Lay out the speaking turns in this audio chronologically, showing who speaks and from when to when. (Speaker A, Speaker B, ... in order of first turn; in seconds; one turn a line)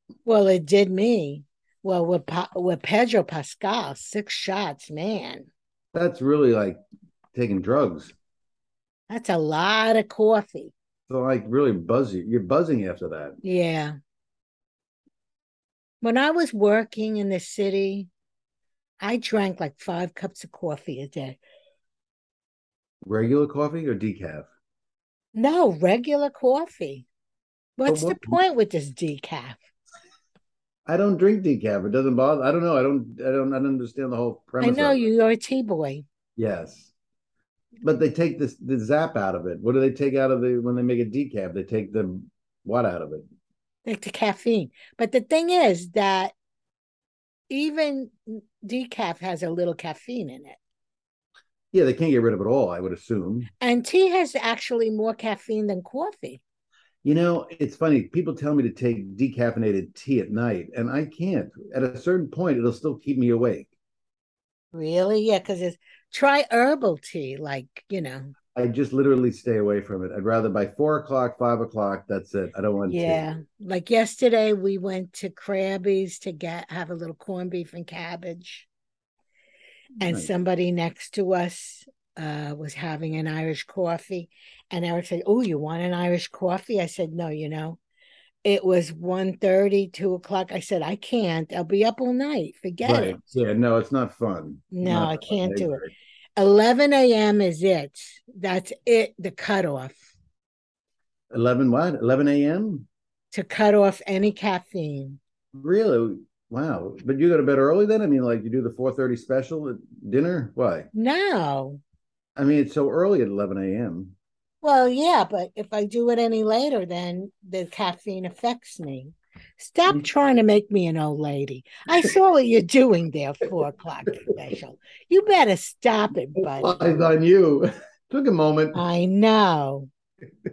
Speaker A: 0.3-5.5
Speaker B: 5.9-6.8
Speaker B: 7.3-8.2
Speaker A: 9.1-10.7
Speaker B: 11.1-13.4
Speaker A: 13.4-14.0
Speaker A: 16.0-18.1
Speaker A: 19.0-21.4
Speaker B: 23.0-24.5
Speaker A: 25.4-27.1
Speaker A: 27.8-29.6
Speaker B: 27.9-28.4
Speaker B: 30.9-35.0
Speaker A: 34.6-36.0
Speaker B: 36.4-36.9
Speaker B: 37.8-43.3
Speaker A: 43.9-46.3
Speaker A: 47.5-50.6
Speaker B: 51.7-53.5
Speaker A: 53.6-56.4
Speaker B: 57.0-63.7
Speaker A: 64.7-68.3
Speaker B: 68.6-73.2
Speaker A: 72.9-78.7
Speaker A: 80.0-87.8
Speaker B: 80.0-80.3
Speaker A: 88.4-93.2
Speaker B: 92.8-95.9
Speaker A: 94.7-95.8
Speaker A: 96.4-100.1
Speaker B: 101.3-102.9
Speaker A: 103.3-105.2
Speaker B: 105.5-110.9
Speaker A: 110.9-111.8
Speaker B: 112.4-114.2
Speaker A: 114.6-126.8
Speaker B: 126.4-128.8
Speaker A: 128.7-129.9